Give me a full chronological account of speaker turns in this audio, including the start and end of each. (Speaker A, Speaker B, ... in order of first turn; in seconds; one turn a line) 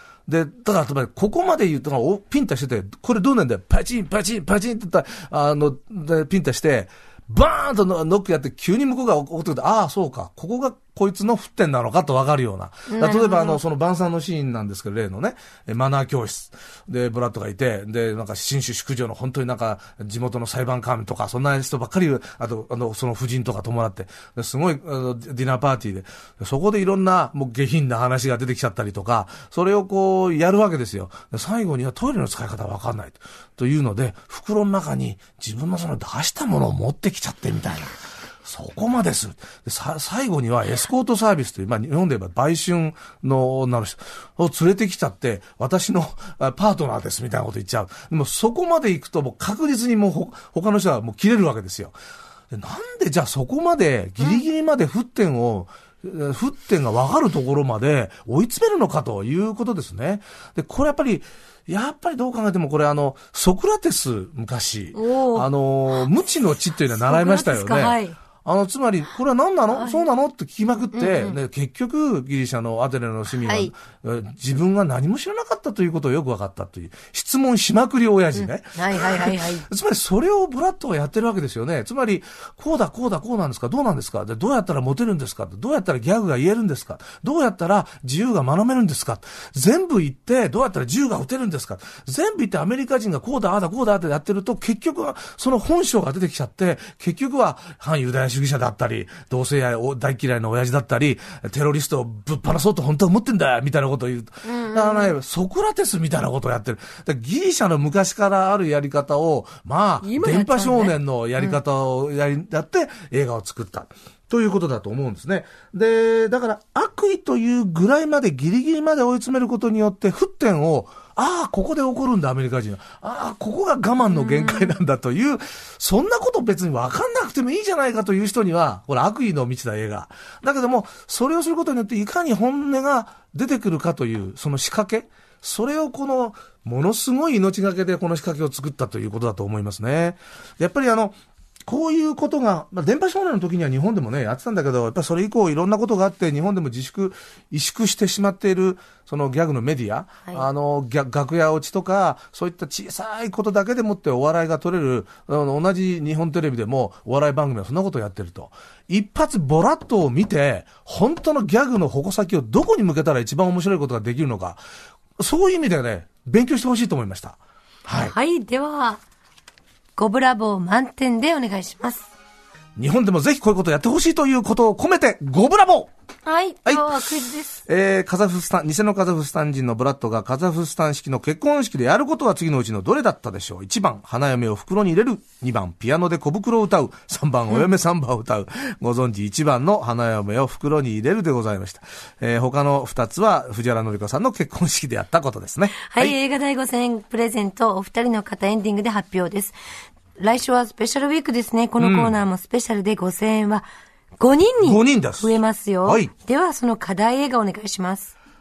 Speaker A: 0.3-51.9
Speaker B: 12.9-13.6
Speaker A: 52.5-141.2
Speaker B: 64.9-65.5
Speaker B: 67.0-68.2
Speaker B: 69.7-70.1
Speaker B: 70.9-71.4
Speaker B: 73.4-73.7
Speaker B: 78.3-79.7
Speaker B: 104.4-105.1
Speaker B: 110.0-111.5
Speaker B: 124.1-124.7
Speaker A: 141.7-164.6
Speaker A: 165.2-168.1
Speaker B: 167.9-169.0
Speaker B: 170.0-172.1
Speaker A: 172.8-175.9
Speaker B: 176.2-177.6
Speaker A: 176.7-177.1
Speaker A: 177.6-196.2
Speaker B: 195.9-199.5
Speaker B: 200.2-203.6
Speaker A: 201.8-202.2
Speaker B: 204.2-208.1
Speaker A: 204.6-205.3
Speaker A: 205.8-206.1